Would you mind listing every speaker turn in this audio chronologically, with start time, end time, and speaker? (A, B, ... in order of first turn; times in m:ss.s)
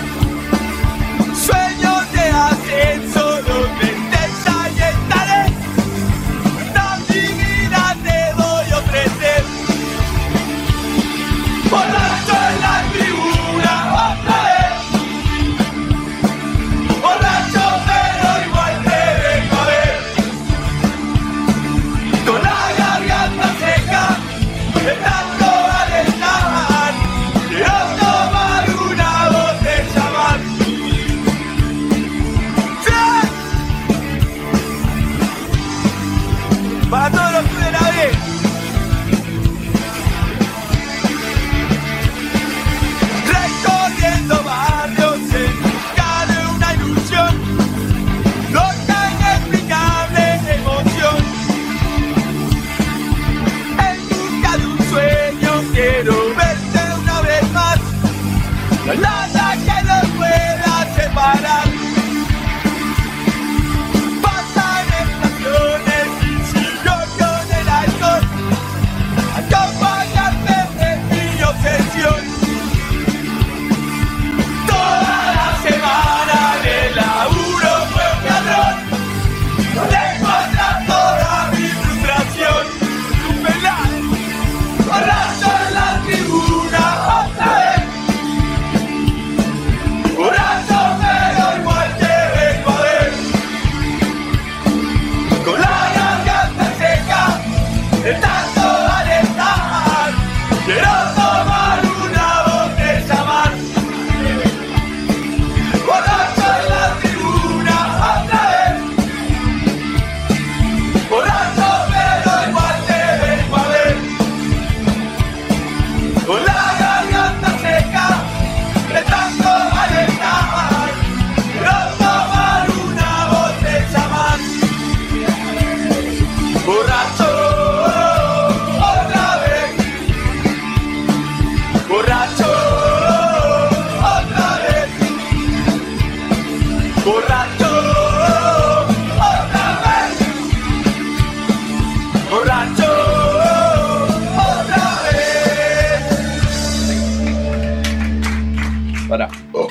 0:01.3-0:05.6 A
0:06.6-0:09.5 A
0:11.7-0:15.0 A
0:17.0-0:20.2 A
0:22.2-0:24.2 A
0:24.8-0:31.0 A
0:32.8-0:33.3 A
0:36.9-0:38.2 A
0:43.2-0:47.5 A
0:48.5-0:51.4 A
0:53.8-0:57.9 A
0:58.8-1:01.8 A
1:04.2-1:08.3 A
1:09.3-1:12.4 A
1:14.6-1:18.9 A
1:19.7-1:24.2 A
1:24.8-1:27.9 A
1:30.1-1:33.3 A
1:35.4-1:37.4 A
1:38.0-1:44.0 A
1:45.8-1:48.9 A
1:51.1-1:54.1 A
1:56.2-1:58.3 A
1:58.9-2:04.7 A
2:06.6-2:09.8 A
2:11.9-2:15.1 A
2:17.0-2:20.3 A
2:22.3-2:26.0 A